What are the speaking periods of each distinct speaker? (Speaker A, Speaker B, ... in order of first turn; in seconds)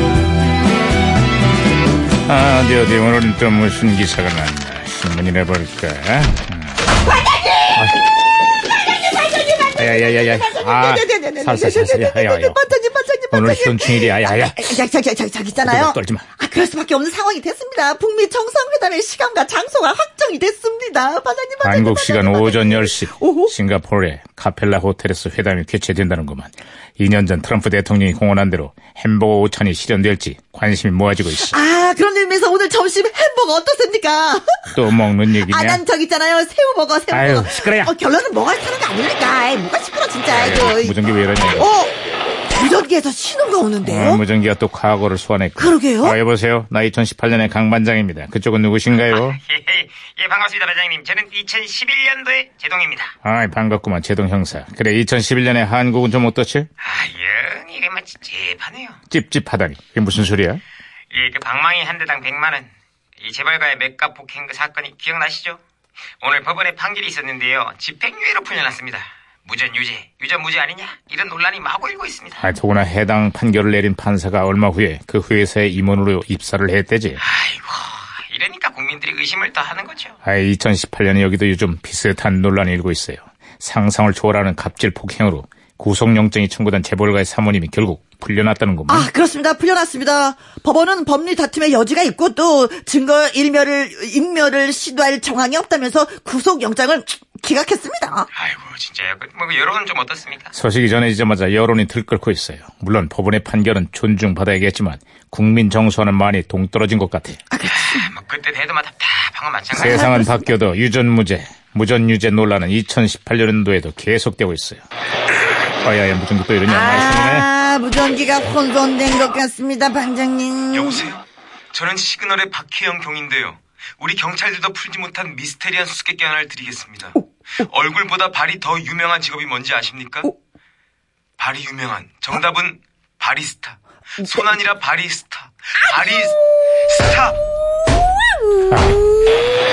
Speaker A: 2.2-6.8, 9.7-12.6, 13.3-14.8, 15.6-16.3, 21.6-31.6, 34.7-35.8, 37.1-37.9, 40.3-41.7, 43.8-49.4, 53.2-56.7, 59.1-60.6, 72.4-77.2, 80.2-89.1, 100.5-107.4, 109.7-114.8, 115.8-117.5, 138.7-139.0
Speaker B: 7.3-7.8, 9.0-23.5, 31.4-41.0, 41.6-41.9, 42.5-44.2, 45.6-46.2, 88.9-98.3, 107.5-108.1, 109.9-110.5, 116.7-121.1, 138.6-139.4
Speaker C: 48.9-53.1, 56.8-59.0, 61.1-65.6, 66.2-72.4, 77.2-80.2, 98.3-100.5, 107.7-110.2, 120.7-130.3, 131.4-137.4